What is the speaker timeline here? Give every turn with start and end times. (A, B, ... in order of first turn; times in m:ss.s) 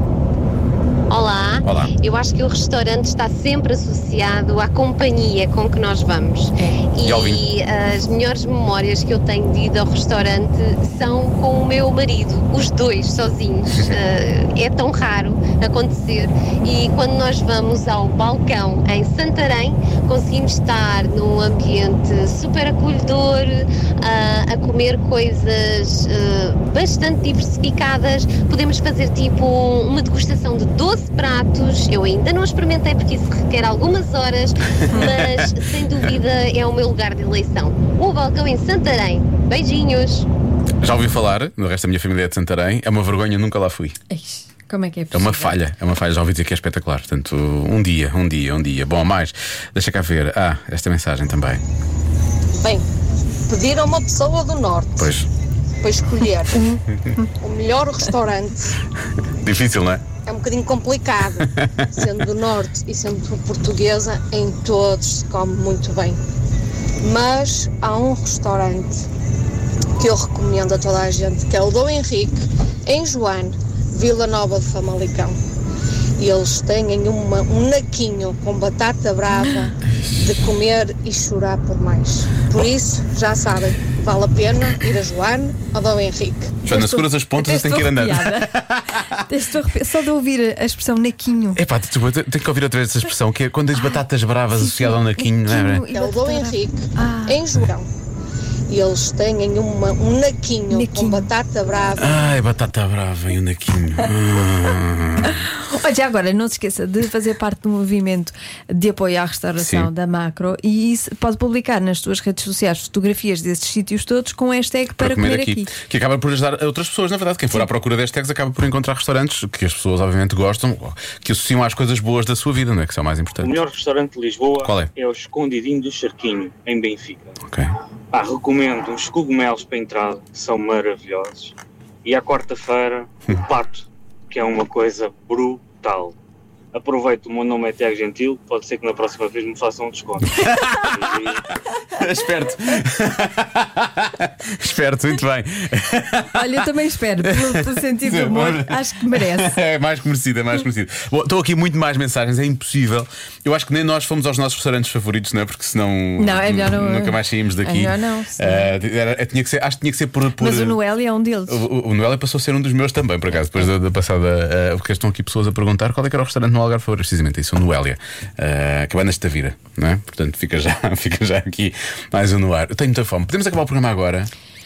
0:01.1-0:40.3 A
0:01.6-0:01.9 B
0:07.0-0:07.4 B
0:34.9-0:35.5 B
0:40.8-0:44.0 B
0:44.1-0:45.6 C
0:45.1-0:51.6 B
0:52.6-0:52.8 D
0:53.5-0:55.1 D
0:55.0-0:55.3 B
0:55.8-0:56.8 D
0:56.5-0:57.2 C
0:57.4-0:58.8 D
0:59.4-1:00.0 B
1:00.2-1:06.2 D
1:07.0-1:09.0 D
1:10.0-1:15.4 D
1:16.2-1:26.6 D
1:26.6-1:29.2 B
1:26.7-1:31.6 C
1:31.6-1:35.9 B
1:34.5-1:37.5 C
1:35.9-1:37.9 D
1:38.7-1:42.2 D
1:40.7-1:41.3 C
1:42.0-1:45.5 B
1:45.2-1:55.7 C
1:49.6-1:49.9 B
1:55.0-2:03.5 B
2:03.4-2:07.4 E
2:04.6-2:04.9 B
2:07.4-2:07.7 B
2:08.1-2:16.2 E
2:16.7-2:21.5 E
2:20.4-2:21.1 B
2:21.9-2:26.7 B
2:26.3-2:29.6 C
2:27.2-2:40.8 B
2:36.2-2:38.7 C
2:40.4-2:41.6 C
2:41.5-2:54.3 B